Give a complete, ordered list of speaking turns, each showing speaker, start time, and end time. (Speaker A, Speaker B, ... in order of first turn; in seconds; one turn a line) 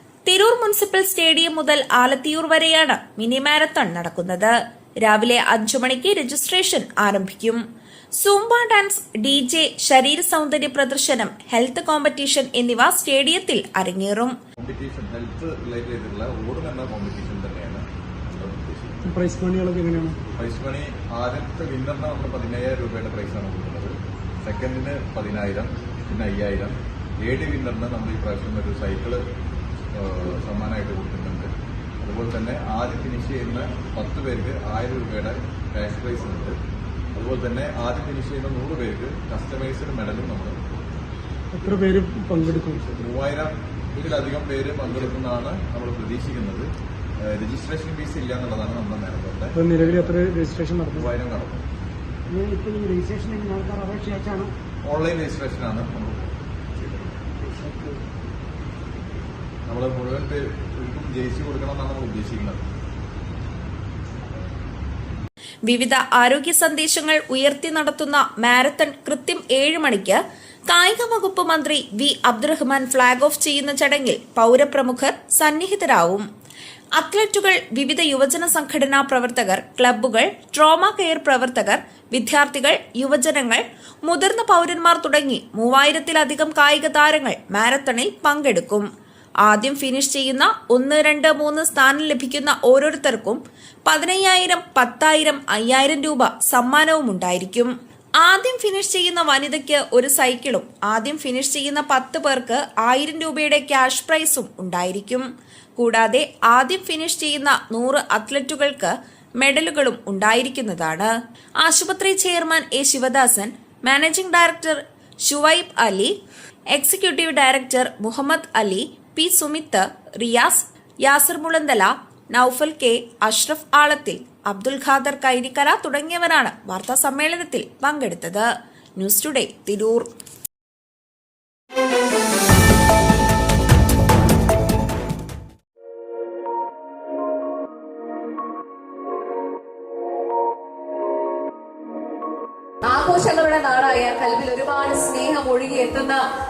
Speaker A: 0.3-7.6
Speaker A: 8.2-14.3
Speaker B: 14.6-19.1
Speaker C: 19.1-20.2
Speaker B: 20.4-29.2
Speaker B: 29.9-36.6
Speaker B: 37.1-40.6
Speaker C: 41.5-42.9
Speaker B: 42.9-46.7
Speaker B: 47.2-50.2
Speaker C: 49.5-51.1
Speaker B: 51.0-51.6
Speaker D: 52.3-54.5
Speaker B: 54.9-56.3
Speaker B: 59.7-62.6
Speaker A: 65.7-76.3
Speaker A: 77.0-88.9
Speaker A: 89.4-105.2
Speaker A: 105.8-116.1
Speaker A: 116.7-130.1
Speaker E: 142.8-146.2